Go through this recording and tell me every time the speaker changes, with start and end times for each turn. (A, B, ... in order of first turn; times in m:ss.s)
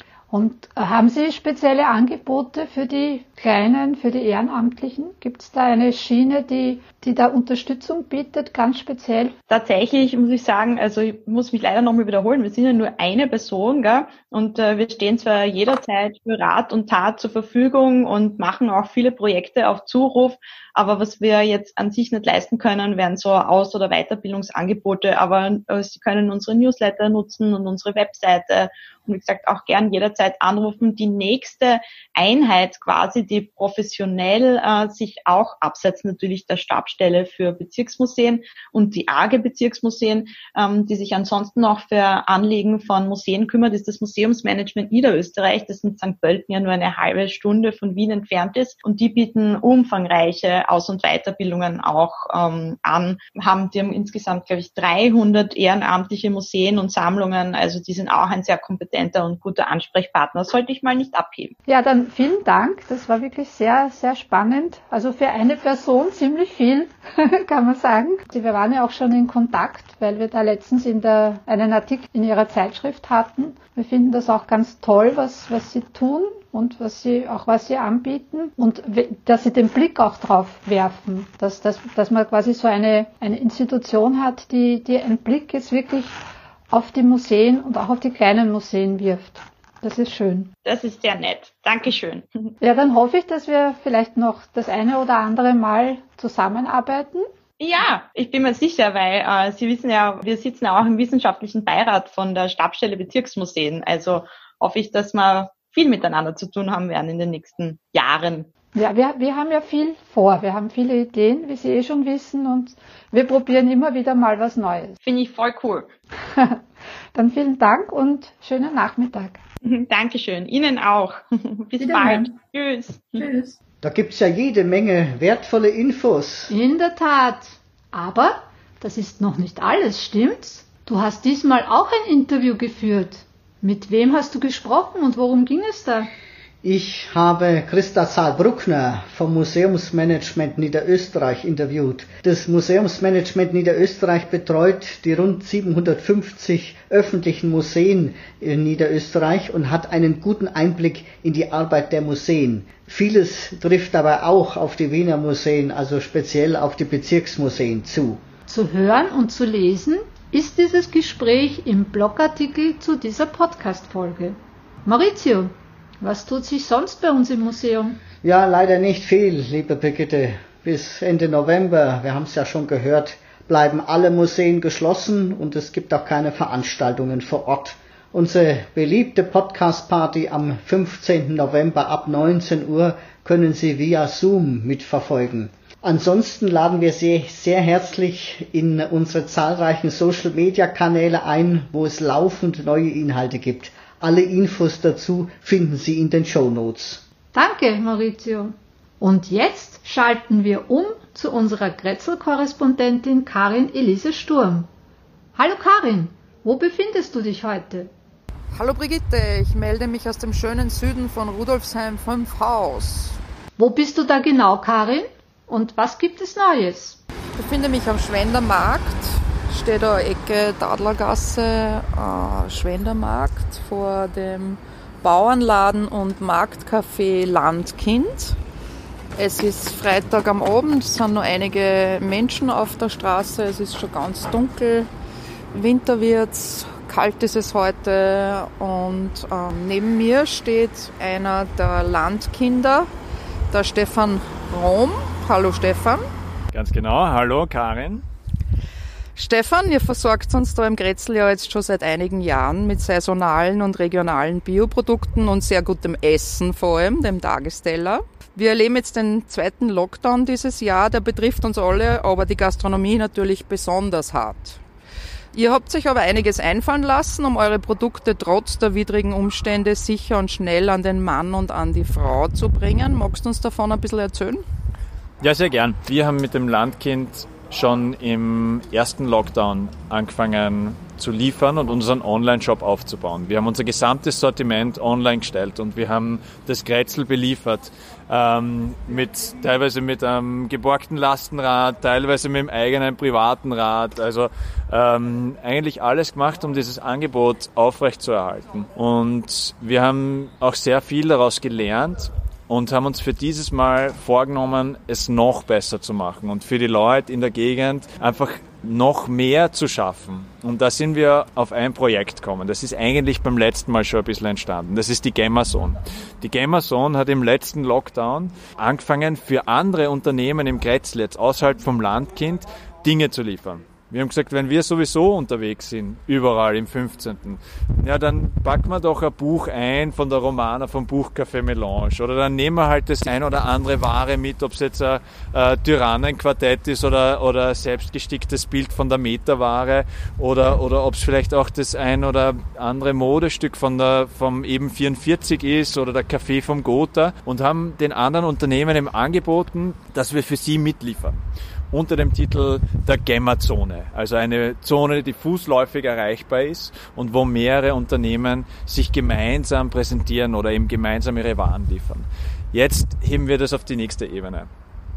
0:00.3-0:09.3 A
0:09.5-1:01.5 B
1:01.7-1:26.1 A
1:26.7-1:30.5 A
1:30.6-1:32.2 B
1:32.6-1:37.2 A
1:37.6-1:48.5 B
1:48.7-1:55.0 A
1:55.0-1:55.9 B
1:56.3-1:56.6 A
1:57.1-1:59.4 A
1:59.6-2:03.3 B
2:03.8-2:06.5 C
2:06.5-2:16.1 A
2:16.6-2:38.2 C
2:38.5-2:48.0 A
2:48.2-3:17.0 C
3:17.3-3:24.7 A
3:25.3-3:27.9 A
3:28.5-3:33.2 D
3:33.6-3:37.0 A
3:37.4-3:48.4 D
3:49.2-3:54.9 D
3:55.5-4:02.9 D
4:03.5-4:06.0 D
4:06.5-4:08.0 E
4:09.2-4:24.6 D
4:25.3-4:34.4 D
4:35.2-5:51.2 E
5:51.7-6:04.5 E